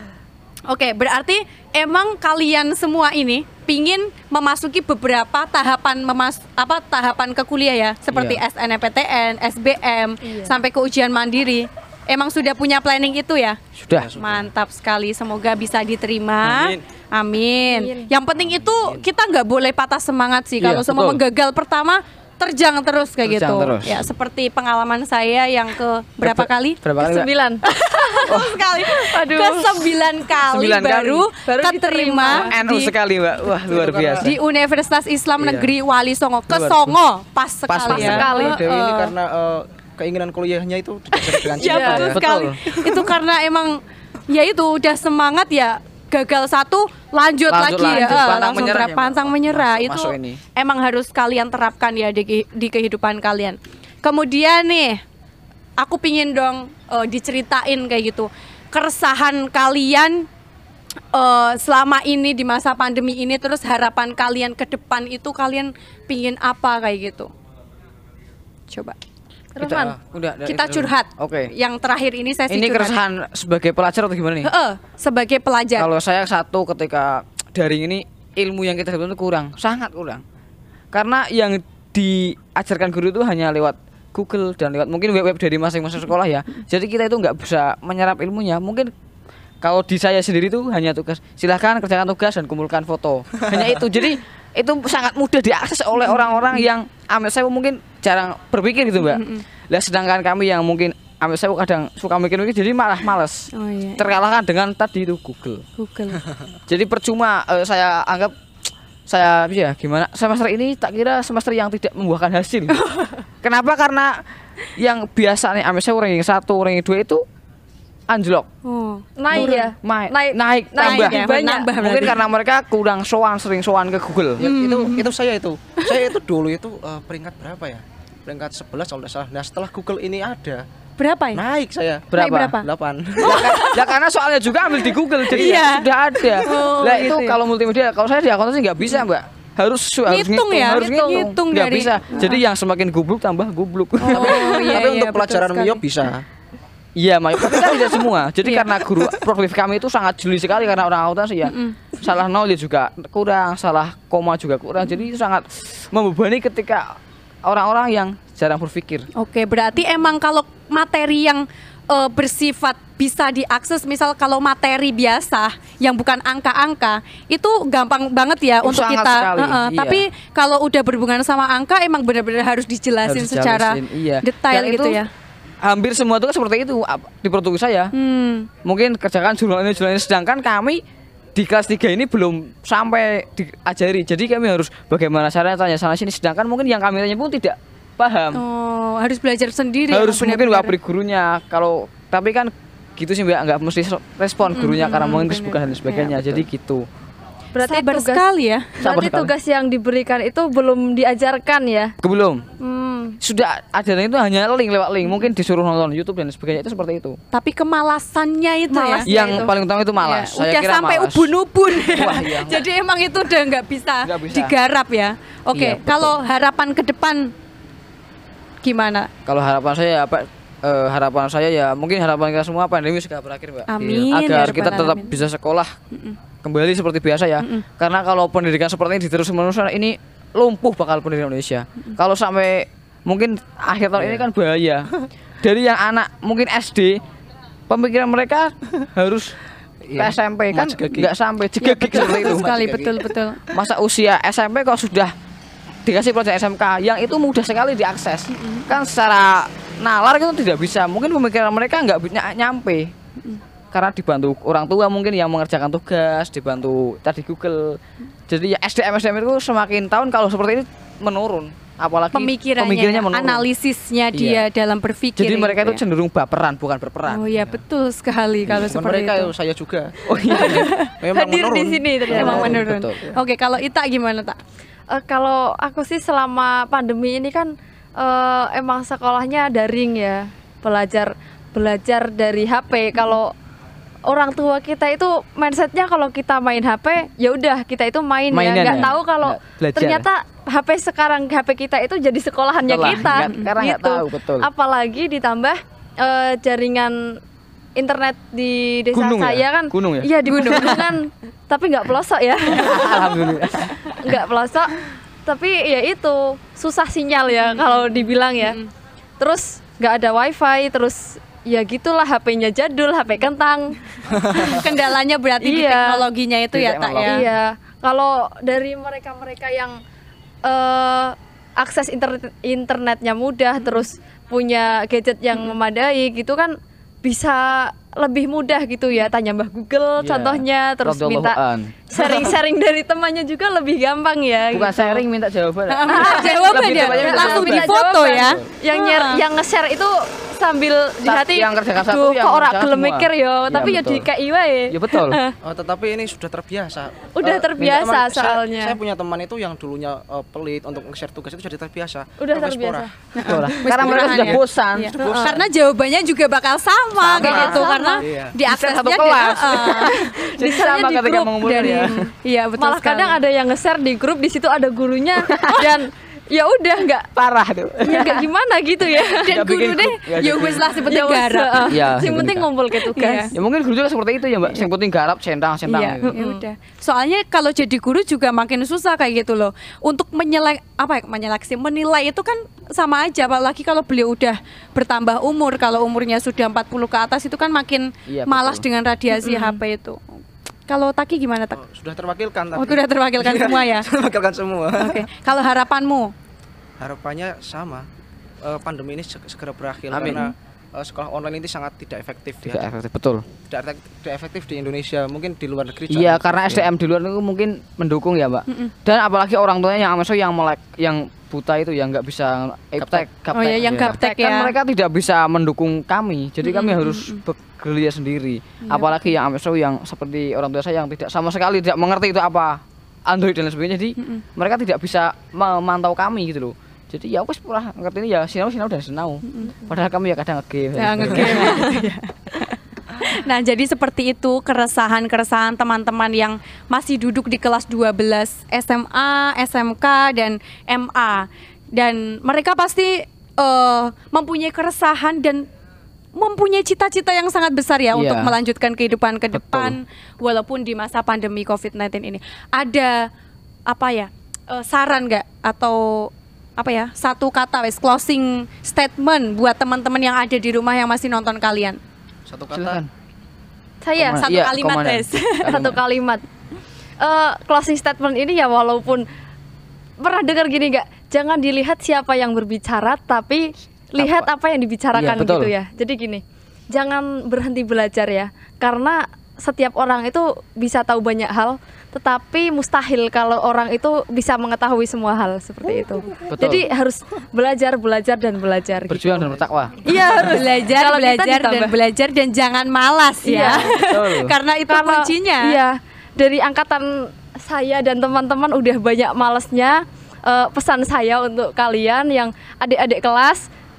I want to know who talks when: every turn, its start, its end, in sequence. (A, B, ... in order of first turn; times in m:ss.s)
0:00.7-0:13.6 A
0:08.1-0:08.4 B
0:10.2-0:10.5 C
0:13.8-0:14.1 B
0:13.9-0:14.5 D
0:14.1-0:26.8 A
0:16.4-0:16.8 B
0:17.7-0:18.1 C
0:18.4-0:19.1 D
0:20.6-0:21.2 B
0:23.2-0:24.0 B
0:26.2-0:27.3 B
0:27.0-0:30.0 C
0:27.6-0:32.9 A
0:30.4-0:31.3 B
0:31.4-0:32.5 C
0:32.2-0:34.4 B
0:33.6-0:34.3 D
0:34.2-0:39.1 A
0:35.4-0:35.7 D
0:36.5-0:37.0 B
0:37.7-0:38.3 B
0:37.9-0:38.6 C
0:37.9-0:43.0 D
0:41.1-0:55.0 A
0:41.6-0:42.1 C
0:41.8-0:42.6 B
0:47.5-0:50.4 B
0:55.8-1:00.3 A
1:01.1-1:07.3 A
1:08.7-1:09.0 A
1:09.6-1:10.0 C
1:09.6-1:11.5 B
1:10.4-1:13.0 A
1:12.5-1:14.5 B
1:14.4-1:15.9 A
1:15.8-1:20.2 B
1:20.9-1:28.9 B
1:29.6-1:45.6 B
1:33.4-1:33.8 D
1:39.0-1:39.4 A
1:43.5-1:44.1 A
1:45.8-1:46.2 A
1:46.7-1:48.4 B
1:49.1-1:52.8 B
1:52.7-1:53.2 A
1:53.4-1:54.2 B
1:54.8-1:57.2 B
1:58.1-1:58.5 B
1:58.6-1:59.7 A
1:59.2-2:01.7 C
1:59.3-2:01.2 B
2:00.8-2:02.2 A
2:01.8-2:04.4 B
2:04.4-2:10.6 D
2:04.4-2:05.1 A
2:11.0-2:11.4 A
2:11.4-2:13.7 D
2:12.1-2:12.6 B
2:12.2-2:12.6 A
2:13.2-2:13.9 A
2:13.2-2:24.6 B
2:15.3-2:17.4 A
2:20.1-2:22.4 A
2:24.0-2:25.8 A
2:24.1-2:26.3 D
2:27.0-2:39.1 B
2:28.4-2:28.8 A
2:31.5-2:31.8 A
2:39.2-2:55.1 A
2:48.6-2:50.0 B
2:53.0-2:55.0 B
2:55.6-2:57.9 B
2:57.9-2:58.5 A
2:58.6-3:00.8 B
3:01.4-3:08.4 B
3:08.3-3:10.7 A
3:09.9-3:16.9 B
3:14.6-3:16.4 A
3:17.5-3:18.2 C
3:17.6-3:18.7 A
3:18.8-3:19.3 B
3:18.8-3:22.0 C
3:22.0-3:22.5 B
3:22.6-3:23.2 C
3:23.2-3:27.2 B
3:27.3-3:29.5 A
3:28.7-3:29.5 C
3:29.1-3:32.6 B
3:30.0-3:37.3 A
3:34.0-3:34.6 B
3:35.5-3:36.2 B
3:38.6-3:39.1 A
3:39.2-3:45.7 B
3:43.7-3:45.2 A
3:45.9-3:46.2 A
3:46.4-3:54.9 B
3:47.4-3:47.6 A
3:54.0-3:54.3 D
3:55.4-3:57.0 B
3:57.7-3:59.3 B
3:59.9-4:01.1 D
4:00.0-4:02.7 B
4:01.6-4:03.4 A
4:01.9-4:02.9 D
4:03.5-4:05.1 B
4:05.8-4:12.9 B
4:08.3-4:08.7 A
4:13.7-4:23.4 B
4:22.1-4:25.8 A
4:24.1-4:24.4 B
4:25.2-4:27.4 B
4:27.1-4:29.3 A
4:28.5-4:30.4 D
4:30.1-4:30.7 B
4:30.3-4:30.9 A
4:31.0-4:33.1 D
4:31.1-4:32.6 C
4:32.1-4:33.0 B
4:32.1-4:34.4 A
4:34.9-4:43.3 C
4:44.1-4:57.2 C
4:48.3-4:50.1 B
4:52.6-4:54.5 B
4:53.2-4:53.5 A
4:57.8-5:03.3 C
4:58.9-5:01.0 B
5:00.3-5:00.7 A
5:02.5-5:04.1 B
5:03.9-5:08.6 C
5:09.2-5:14.7 C
5:14.4-5:17.3 A
5:15.4-5:16.1 C
5:16.5-5:17.3 B
5:17.0-5:19.8 C
5:20.4-5:31.4 C
5:30.0-5:32.3 B
5:31.9-5:35.0 C
5:34.5-5:37.8 B
5:35.7-5:39.2 A
5:35.9-5:45.4 C
5:41.0-5:44.1 B
5:44.7-5:45.2 B
5:45.4-5:53.5 D
5:47.2-5:48.8 C
5:47.6-5:48.3 B
5:52.2-5:52.9 C
5:53.2-6:00.0 A
5:53.3-5:55.0 B
5:54.0-5:54.4 D
5:55.0-5:55.4 C
5:55.0-5:55.4 D
5:57.0-5:57.7 B
5:57.2-5:58.0 C
5:58.0-5:58.3 D
5:58.5-6:02.0 B
5:59.6-6:01.9 C
6:01.4-6:03.2 A
6:02.6-6:07.1 C
6:05.2-6:05.8 B
6:07.2-6:08.3 B
6:07.8-6:13.4 C
6:09.0-6:10.8 B
6:09.4-6:11.7 A
6:11.7-6:12.5 B
6:12.9-6:13.3 A
6:13.3-6:16.1 B
6:15.7-6:31.6 A
6:16.0-6:16.4 C
6:28.1-6:28.6 B
6:29.2-6:29.6 C
6:31.6-6:35.0 D
6:32.6-6:33.9 A
6:34.8-6:36.1 A
6:36.8-6:37.9 D
6:38.4-6:42.6 D
6:39.9-6:40.3 B
6:42.4-6:43.3 B
6:43.5-6:46.7 D
6:45.9-7:11.9 B
6:48.5-6:48.7 A
6:52.8-6:53.1 D
6:53.3-6:54.5 A
6:56.4-6:57.2 A
6:58.7-6:59.1 A
7:04.0-7:04.2 A
7:09.3-7:09.5 A
7:10.8-7:25.5 A
7:26.2-7:33.1 A
7:27.9-7:28.3 B
7:29.3-7:29.8 B
7:33.7-7:41.8 A
7:42.3-7:42.8 D
7:42.5-7:42.9 B
7:43.8-7:44.3 C
7:44.0-7:45.8 B
7:44.2-7:45.6 A
7:45.4-7:46.3 C
7:47.0-7:49.1 C
7:50.0-8:11.7 C
7:54.0-7:54.3 B
7:54.9-7:55.5 B
8:06.3-8:06.6 B
8:08.9-8:09.8 B
8:09.8-8:15.6 A
8:13.2-8:13.8 C
8:13.4-8:14.4 B
8:14.7-8:23.5 C